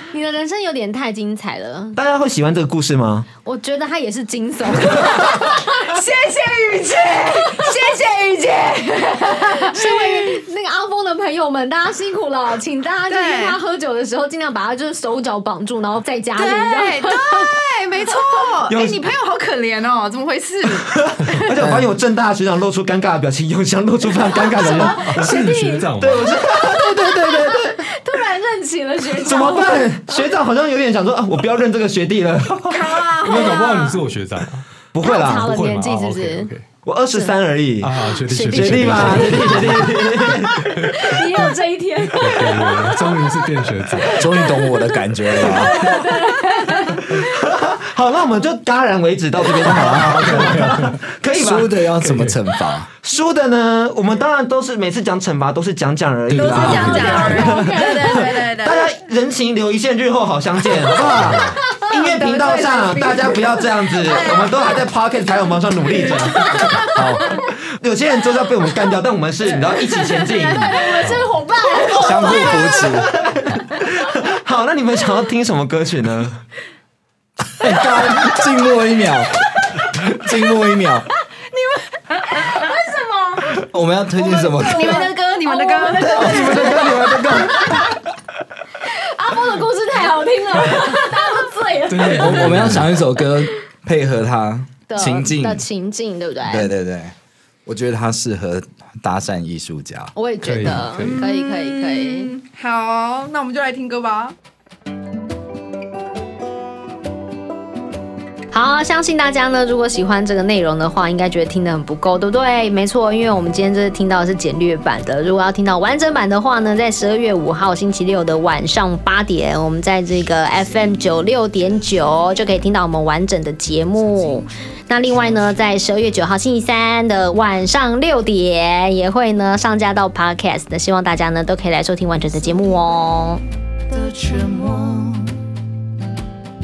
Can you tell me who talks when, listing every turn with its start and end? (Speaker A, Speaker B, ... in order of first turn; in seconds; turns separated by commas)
Speaker A: 0.1-2.0, Speaker B: 2.0-3.3, Speaker A: 3.4-5.9, Speaker C: 5.7-10.4, Speaker A: 9.2-17.6, Speaker C: 13.1-13.6, Speaker C: 16.4-21.0, Speaker B: 18.7-19.0, Speaker B: 20.8-25.3, Speaker A: 24.4-30.3, Speaker D: 24.7-26.3, Speaker B: 26.0-27.9, Speaker B: 29.2-33.6, Speaker C: 32.7-33.7, Speaker A: 32.8-33.9, Speaker D: 33.2-34.7, Speaker B: 34.9-35.5, Speaker A: 35.0-36.5, Speaker D: 35.4-36.7, Speaker B: 36.9-40.6, Speaker A: 37.1-37.4, Speaker D: 37.8-39.9, Speaker A: 38.3-47.0, Speaker D: 40.7-41.1, Speaker D: 42.2-44.3, Speaker E: 44.1-45.9, Speaker B: 47.1-52.2, Speaker E: 49.7-52.9, Speaker D: 50.4-50.9, Speaker D: 52.0-52.3, Speaker B: 52.8-66.8, Speaker D: 56.3-57.6, Speaker C: 56.3-58.9, Speaker A: 57.3-57.9, Speaker A: 61.2-61.8, Speaker C: 62.1-63.1, Speaker C: 64.0-64.6, Speaker A: 66.3-67.3, Speaker E: 67.0-67.3, Speaker B: 67.8-71.1, Speaker A: 69.9-73.8, Speaker D: 71.0-71.3, Speaker E: 72.0-73.1, Speaker C: 72.1-72.5, Speaker B: 73.8-76.4, Speaker E: 77.6-79.4, Speaker E: 80.1-81.1, Speaker C: 81.6-82.4, Speaker A: 82.3-83.6, Speaker E: 83.7-85.1, Speaker C: 84.2-87.1, Speaker A: 84.4-87.9, Speaker B: 86.0-87.7, Speaker E: 86.2-87.4, Speaker A: 88.8-93.3, Speaker D: 91.9-93.0, Speaker E: 92.1-95.6, Speaker A: 94.9-96.7, Speaker E: 96.5-100.1, Speaker A: 100.2-102.3, Speaker D: 100.4-101.2, Speaker C: 101.1-104.4, Speaker A: 108.5-133.4, Speaker C: 133.9-135.4